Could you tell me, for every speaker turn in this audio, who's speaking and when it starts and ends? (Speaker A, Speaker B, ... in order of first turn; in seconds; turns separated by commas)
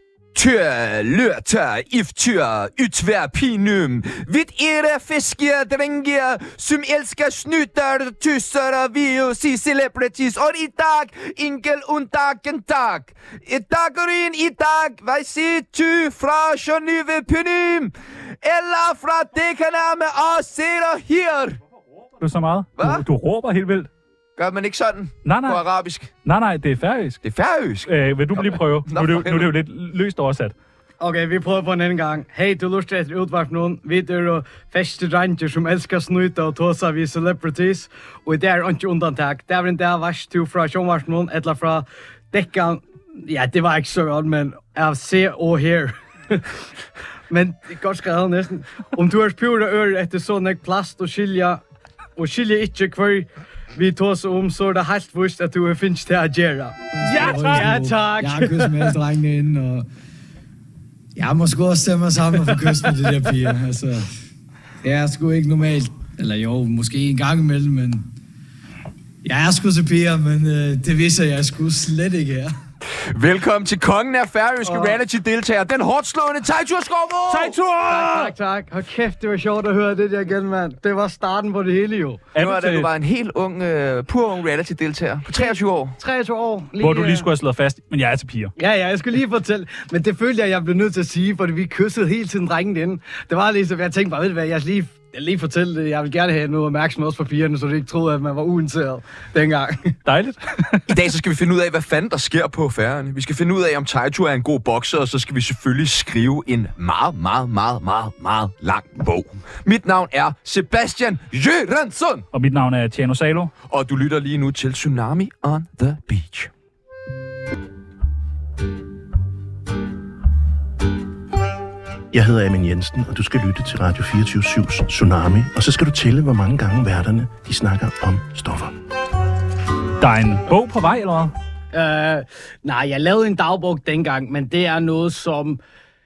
Speaker A: 0.3-21.6, Speaker B: 22.2-23.9, Speaker A: 22.8-23.0, Speaker A: 24.4-26.1, Speaker B: 25.2-25.6, Speaker B: 26.2-27.2, Speaker A: 27.2-29.5, Speaker B: 27.9-30.5, Speaker C: 31.0-46.5, Speaker C: 47.3-51.6, Speaker C: 52.1-59.7, Speaker B: 57.0-57.9, Speaker D: 57.2-59.8, Speaker D: 61.2-64.0, Speaker C: 61.3-64.0, Speaker D: 64.8-68.0, Speaker C: 64.8-68.0, Speaker D: 69.2-72.5, Speaker C: 70.9-72.5, Speaker A: 72.9-77.5, Speaker C: 74.7-75.0, Speaker B: 77.3-78.3, Speaker C: 77.8-82.2, Speaker B: 82.3-82.9, Speaker A: 82.4-86.0, Speaker C: 85.3-87.3, Speaker B: 86.8-88.5, Speaker C: 88.6-100.0, Speaker B: 100.0-101.0, Speaker A: 100.9-112.2, Speaker B: 112.3-113.5, Speaker A: 113.7-116.5, Speaker E: 122.1-128.7, Speaker B: 130.0-131.3, Speaker C: 131.7-135.6